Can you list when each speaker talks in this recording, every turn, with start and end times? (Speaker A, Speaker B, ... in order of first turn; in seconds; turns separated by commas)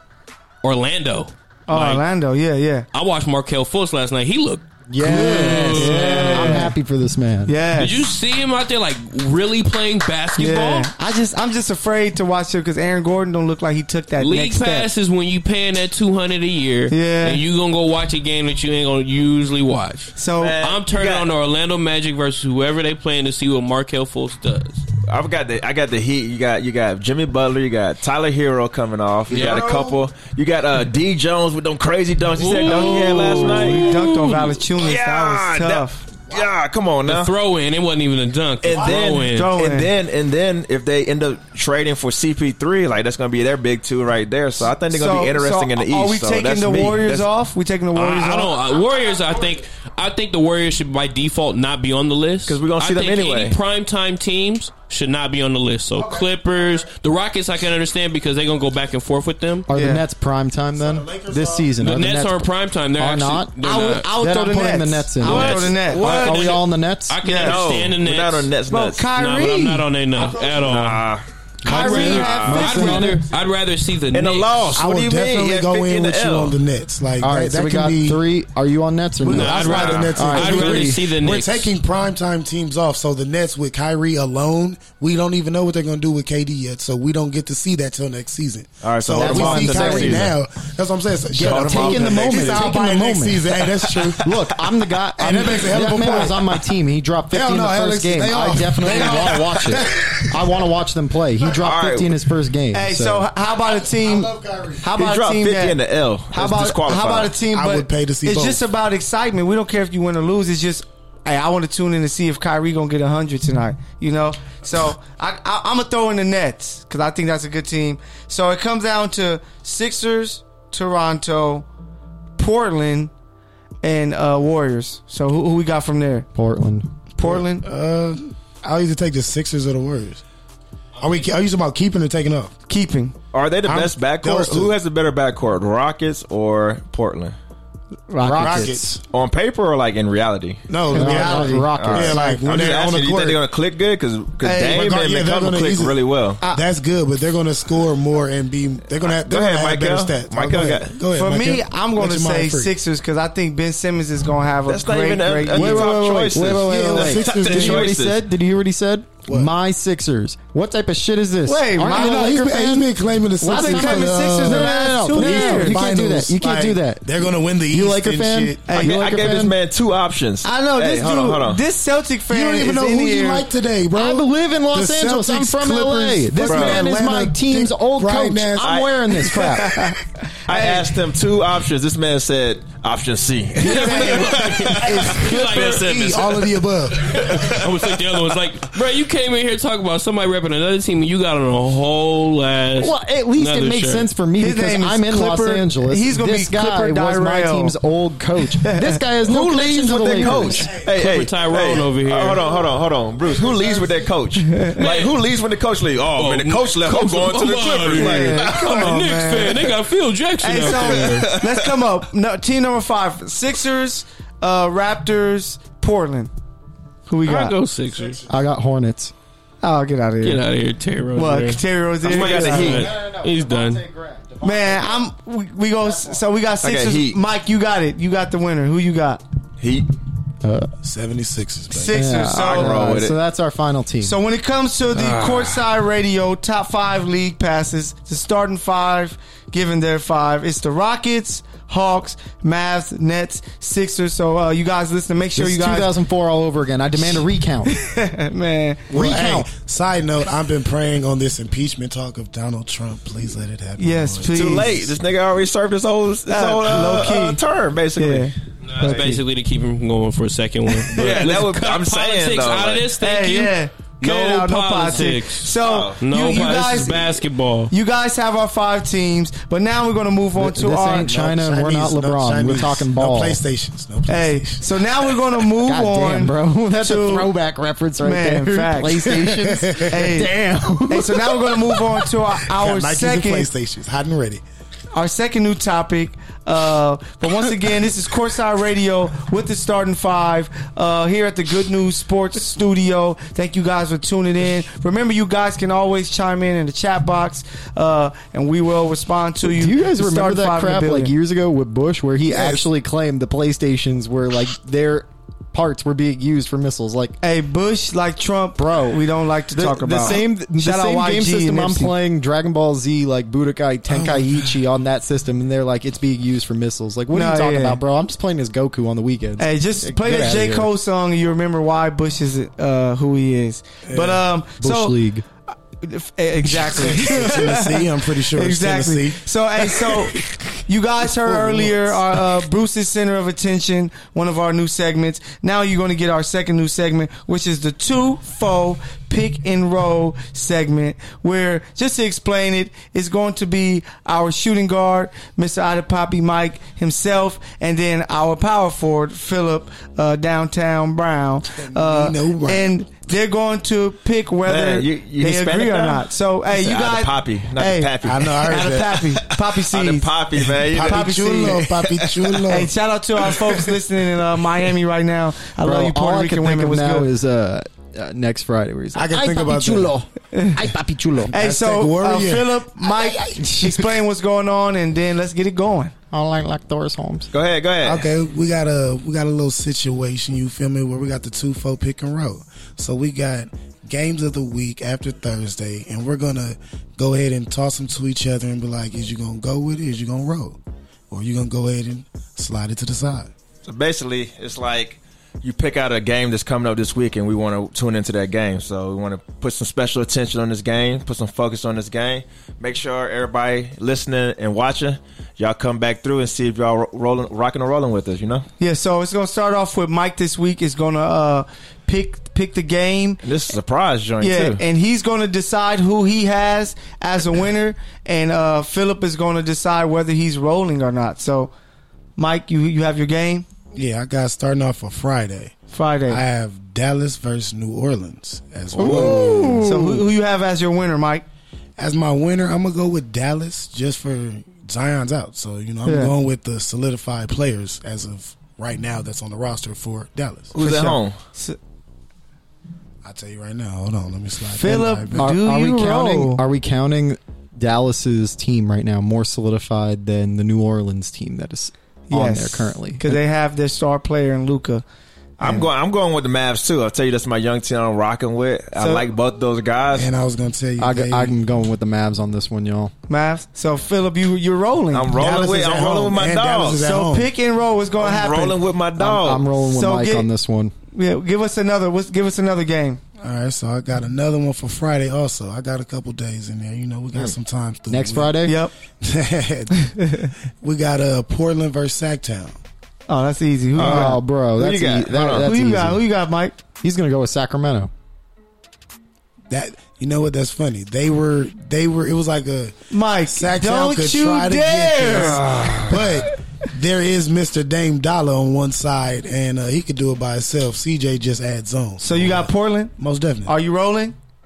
Speaker A: 0.6-2.0, Speaker B: 1.7-2.9, Speaker A: 2.9-6.7, Speaker C: 4.9-7.5, Speaker B: 5.0-6.7, Speaker B: 7.5-8.1, Speaker A: 7.8-10.9, Speaker B: 10.4-14.9, Speaker A: 14.2-24.9, Speaker B: 16.9-17.4, Speaker B: 20.2-20.6, Speaker D: 20.4-21.3, Speaker D: 25.1-33.9, Speaker A: 29.3-29.7, Speaker E: 29.3-30.0, Speaker A: 32.4-34.6, Speaker B: 32.6-36.1, Speaker D: 34.8-37.3, Speaker A: 37.1-39.5, Speaker D: 38.6-47.3, Speaker B: 39.1-39.9, Speaker B: 44.9-48.6, Speaker A: 47.9-59.7, Speaker D: 52.5-53.6, Speaker E: 56.0-56.9, Speaker C: 59.7-62.5, Speaker B: 59.7-60.0, Speaker E: 60.8-61.8, Speaker A: 61.8-64.1, Speaker C: 63.0-63.6, Speaker B: 63.6-66.3, Speaker C: 64.1-67.2, Speaker A: 65.2-68.5, Speaker D: 65.3-66.6, Speaker B: 67.2-67.6, Speaker D: 67.3-69.1, Speaker B: 68.7-69.9, Speaker A: 69.1-71.0, Speaker E: 70.2-70.6, Speaker D: 70.3-71.2, Speaker B: 71.6-73.1, Speaker C: 71.6-73.2, Speaker A: 71.7-74.8, Speaker D: 71.8-72.7, Speaker D: 74.1-76.6, Speaker E: 74.8-78.2, Speaker C: 77.2-81.0, Speaker E: 79.2-94.3, Speaker A: 79.3-81.7, Speaker D: 79.7-80.1, Speaker D: 88.8-90.3, Speaker C: 89.2-90.3, Speaker C: 91.3-103.3, Speaker D: 91.4-92.8, Speaker D: 93.7-94.2, Speaker E: 95.2-96.6, Speaker E: 97.3-100.6, Speaker D: 98.8-99.6, Speaker D: 101.5-102.1, Speaker B: 102.7-121.7, Speaker E: 103.8-104.9, Speaker D: 104.9-107.4, Speaker E: 107.5-108.6, Speaker B: 122.4-123.1, Speaker B: 123.8-126.3, Speaker C: 126.3-126.9, Speaker B: 127.2-127.7, Speaker E: 127.2-130.2, Speaker E: 131.0-132.5, Speaker B: 132.7-133.1, Speaker D: 133.3-137.3, Speaker E: 133.7-134.7, Speaker B: 138.1-138.8, Speaker C: 138.2-139.0, Speaker E: 138.3-139.0, Speaker D: 139.1-146.4, Speaker E: 140.7-143.4, Speaker C: 140.9-142.2, Speaker B: 140.9-141.6, Speaker B: 144.4-144.9, Speaker E: 144.6-146.0, Speaker E: 146.5-152.7, Speaker D: 149.0-151.0, Speaker B: 151.1-156.0, Speaker D: 154.7-158.2, Speaker C: 155.5-169.6, Speaker E: 155.6-157.9, Speaker E: 159.3-159.5, Speaker B: 161.4-162.4, Speaker E: 161.8-168.8, Speaker B: 163.4-165.8, Speaker B: 168.7-169.0, Speaker D: 168.7-171.6, Speaker B: 170.4-173.5, Speaker E: 172.3-178.8, Speaker C: 173.9-179.9, Speaker D: 176.4-176.8, Speaker D: 178.6-179.0, Speaker B: 179.2-181.0, Speaker D: 180.5-188.2, Speaker A: 183.6-194.1, Speaker B: 183.6-185.2, Speaker E: 184.8-187.2, Speaker C: 192.8-200.7, Speaker B: 194.4-197.8, Speaker B: 198.6-199.0, Speaker D: 199.2-208.8, Speaker E: 200.2-200.9, Speaker A: 200.9-202.4, Speaker E: 202.4-204.1, Speaker B: 204.4-204.9, Speaker A: 206.2-211.4, Speaker B: 207.9-209.7, Speaker B: 210.4-216.3, Speaker D: 210.6-211.7, Speaker B: 217.1-217.6, Speaker A: 217.2-218.2, Speaker E: 217.9-218.4, Speaker C: 218.3-219.1, Speaker B: 219.6-220.4, Speaker A: 220.2-223.8, Speaker B: 221.1-222.8, Speaker D: 222.0-222.9, Speaker C: 222.1-225.1, Speaker B: 224.4-229.2, Speaker C: 225.8-226.2, Speaker D: 226.6-227.2, Speaker D: 229.6-229.9, Speaker C: 230.4-230.7, Speaker E: 230.8-232.1, Speaker B: 231.7-232.8, Speaker C: 231.9-234.2, Speaker D: 232.3-233.2, Speaker B: 234.0-245.9, Speaker D: 234.9-235.7, Speaker C: 245.4-247.7, Speaker B: 247.7-248.9, Speaker C: 248.9-249.5, Speaker E: 248.9-254.7, Speaker B: 253.8-254.9, Speaker D: 254.3-259.1, Speaker B: 256.3-257.4, Speaker B: 258.0-259.2, Speaker A: 258.7-267.7, Speaker D: 260.9-262.9, Speaker B: 263.0-271.1, Speaker D: 265.6-266.0, Speaker C: 270.4-273.4, Speaker E: 271.1-274.8, Speaker B: 274.1-277.3, Speaker C: 275.6-281.8, Speaker B: 278.0-279.1, Speaker E: 279.1-280.1, Speaker B: 279.9-280.3, Speaker B: 280.9-283.5, Speaker E: 282.4-284.4, Speaker B: 284.9-301.1, Speaker C: 299.4-307.2, Speaker E: 302.3-302.6, Speaker B: 307.2-311.9, Speaker C: 308.6-309.0, Speaker C: 309.5-320.7, Speaker E: 313.9-314.5, Speaker B: 317.1-317.8, Speaker B: 319.4-324.9, Speaker E: 323.9-324.2, Speaker C: 324.6-325.2, Speaker B: 325.8-360.1, Speaker E: 326.5-330.4, Speaker E: 331.1-332.2, Speaker E: 351.5-352.7, Speaker D: 354.5-362.6, Speaker E: 358.0-359.0, Speaker E: 360.4-362.7, Speaker B: 360.8-361.7, Speaker B: 362.5-367.1, Speaker C: 365.6-371.3, Speaker E: 368.9-370.0, Speaker B: 370.3-370.6, Speaker E: 371.2-373.6, Speaker B: 371.3-375.9, Speaker C: 376.1-377.3, Speaker D: 377.3-378.1, Speaker E: 377.8-393.3, Speaker D: 393.6-408.5, Speaker B: 408.6-413.2, Speaker D: 413.2-414.6, Speaker B: 414.2-421.5, Speaker B: 422.2-423.5, Speaker E: 423.7-425.6, Speaker B: 425.7-426.2, Speaker E: 426.1-429.7, Speaker C: 428.8-430.1, Speaker B: 428.8-431.2, Speaker E: 431.8-440.5, Speaker B: 435.9-436.1, Speaker D: 440.5-441.2, Speaker B: 440.6-441.6, Speaker E: 443.0-445.3, Speaker B: 444.5-446.4, Speaker C: 445.2-453.2, Speaker B: 452.1-454.8, Speaker B: 455.4-455.7, Speaker D: 455.4-460.1, Speaker B: 458.8-459.1, Speaker E: 459.9-461.4, Speaker C: 460.8-462.9, Speaker B: 463.1-465.1, Speaker D: 464.9-466.9, Speaker E: 465.1-467.3, Speaker B: 466.8-468.6, Speaker D: 468.0-469.5, Speaker C: 469.0-470.7, Speaker B: 469.7-470.3, Speaker B: 470.9-473.0, Speaker E: 473.2-478.4, Speaker C: 477.9-478.6, Speaker B: 478.4-478.7, Speaker E: 479.0-480.1, Speaker B: 479.8-480.3, Speaker E: 480.6-482.6, Speaker B: 483.1-484.2, Speaker D: 483.8-485.5, Speaker C: 483.8-486.0, Speaker B: 485.4-486.6, Speaker C: 486.8-487.9, Speaker E: 489.5-503.5, Speaker B: 492.9-495.6, Speaker D: 495.2-496.2, Speaker B: 502.0-502.9, Speaker B: 503.5-504.1